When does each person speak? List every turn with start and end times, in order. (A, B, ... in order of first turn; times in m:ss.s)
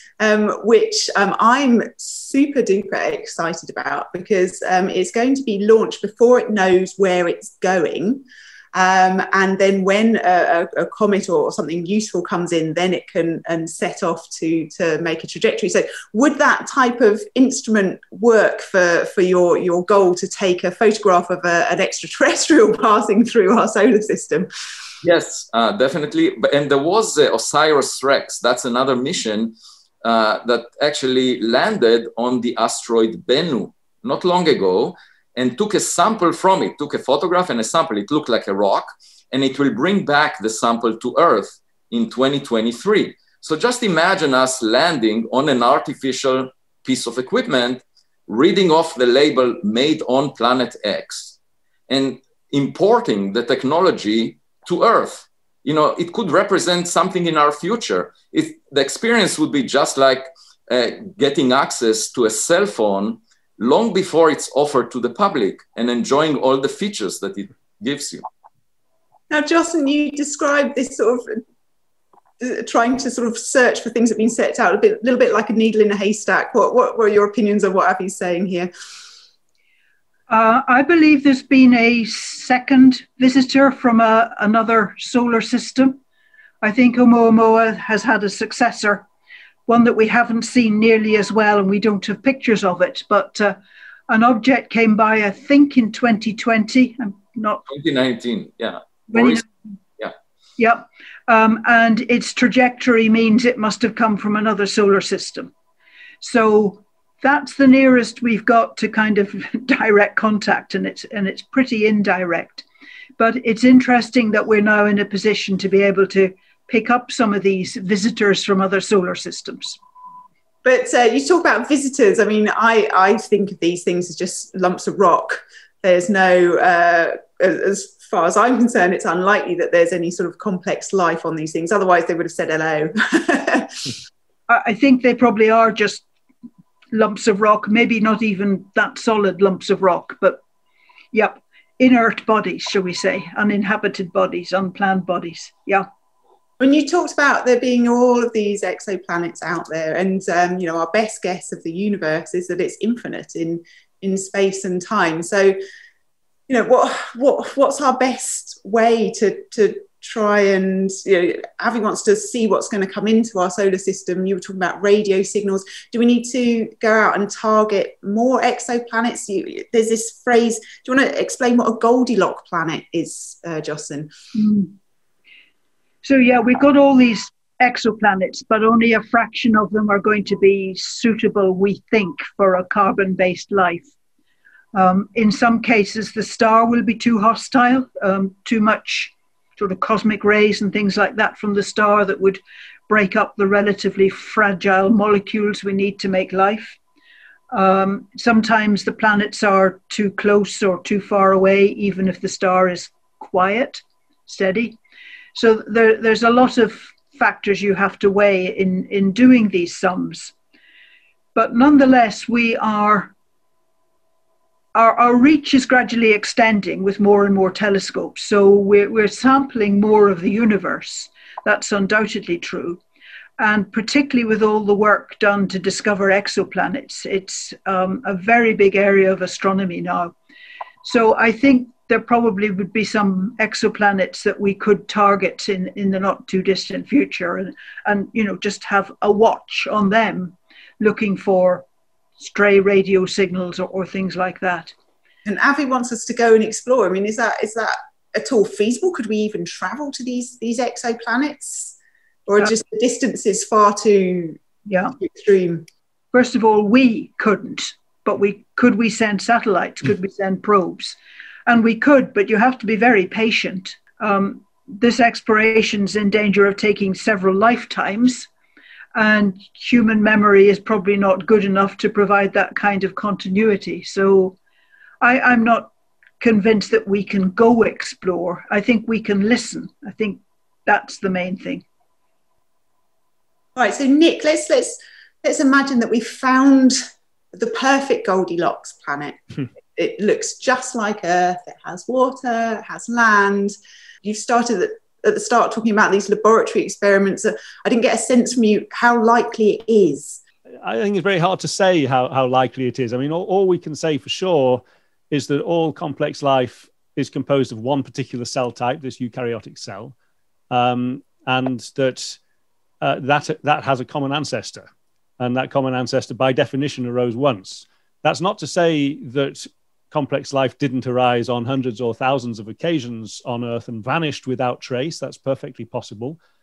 0:00.2-0:24.5 A
0:25.0-0:51.4 B
0:51.9-1:08.2 B
1:09.3-1:11.4 A
1:12.4-1:18.7 A
1:20.3-1:26.0 C
1:26.6-1:29.0 C
1:29.7-1:33.6 C
1:34.1-1:37.6 C
1:37.7-1:39.4 B
1:39.1-1:39.5 C
1:40.6-1:45.5 C
1:46.2-1:52.6 C
1:53.2-1:59.8 C
2:00.6-2:13.9 A
2:14.5-2:16.0 C
2:16.9-2:20.4 C
2:21.1-2:25.8 C
2:26.6-2:35.6 A
2:36.5-2:54.1 A
2:54.3-2:54.7 C
2:56.0-3:03.8 C
3:04.7-3:16.8 C
3:17.5-3:24.8 C
3:25.3-3:30.3 C
3:31.3-3:33.1 C
3:34.7-3:42.8 C
3:43.4-3:50.1 C
3:50.8-4:01.6 C
4:02.2-4:04.7 C
4:05.2-4:11.8 A
4:12.3-4:14.4 A
4:14.6-4:14.9 C
4:15.0-4:15.6 A
4:16.1-4:28.3 C
4:28.9-4:34.4 C
4:35.0-4:41.6 C
4:43.5-4:46.8 A
4:47.3-4:49.2 A
4:49.8-5:00.2 A
5:00.6-5:09.9 D
5:10.5-5:12.2 D
5:12.8-5:14.7 D
5:15.2-5:26.2 D